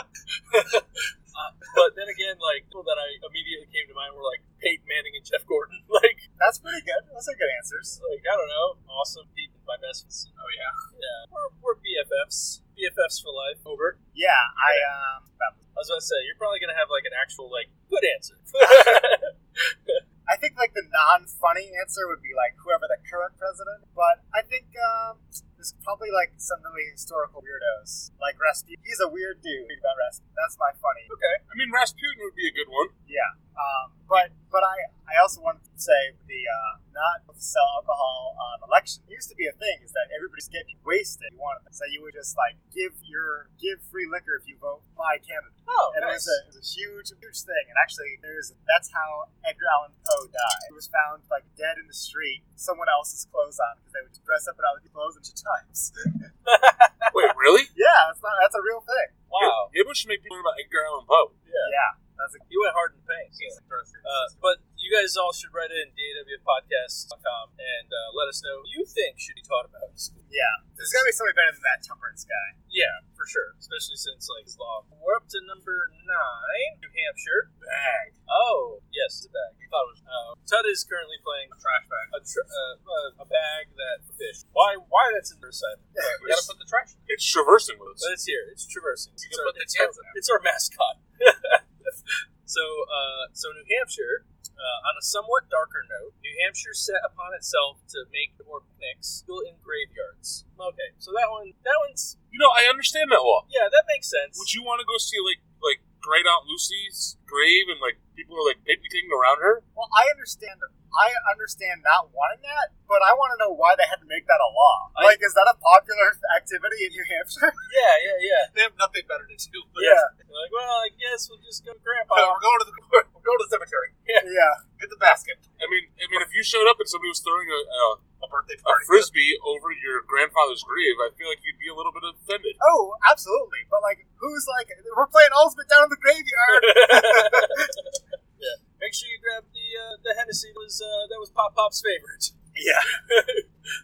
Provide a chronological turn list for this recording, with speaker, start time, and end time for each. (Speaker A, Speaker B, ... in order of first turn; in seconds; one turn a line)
Speaker A: 0.5-6.2
Speaker B: 6.4-8.0
Speaker A: 8.0-10.3
Speaker C: 10.4-10.8
Speaker A: 10.9-14.0
Speaker B: 14.1-15.6
Speaker A: 14.6-14.9
Speaker A: 15.7-20.0
Speaker B: 18.6-19.1
Speaker B: 20.3-31.1
Speaker A: 31.1-31.4
Speaker D: 31.5-32.9
Speaker B: 33.1-56.3
Speaker A: 45.7-46.4
Speaker A: 56.4-57.3
Speaker D: 57.1-57.7
Speaker B: 57.7-59.2
Speaker A: 59.3-59.7
Speaker D: 59.4-61.4
Speaker A: 61.5-61.7
Speaker B: 61.6-62.4
Speaker A: 62.5-70.2
Speaker C: 63.3-64.4
Speaker B: 70.3-72.5
Speaker A: 70.8-71.0
Speaker A: 72.7-77.5
Speaker D: 77.6-78.2
Speaker A: 78.3-81.5
Speaker C: 79.6-80.0
Speaker C: 81.5-82.1
Speaker A: 82.1-86.4
Speaker B: 85.9-86.2
Speaker C: 86.2-87.1
Speaker D: 87.1-88.1
Speaker A: 88.0-102.2
Speaker C: 89.2-90.2
Speaker D: 102.3-103.5
Speaker A: 103.5-104.5
Speaker D: 104.3-109.6
Speaker B: 109.7-117.6
Speaker A: 114.9-115.2
Speaker A: 117.7-118.5
Speaker C: 118.5-120.1
Speaker B: 119.8-120.1
Speaker A: 119.8-122.4
Speaker C: 122.1-124.0
Speaker A: 124.0-124.3
Speaker B: 124.2-124.6
Speaker C: 124.8-125.6
Speaker D: 125.6-128.0
Speaker C: 128.2-129.1
Speaker D: 128.6-132.6
Speaker B: 132.6-137.7
Speaker A: 136.5-142.3
Speaker B: 142.5-142.9
Speaker A: 142.9-143.5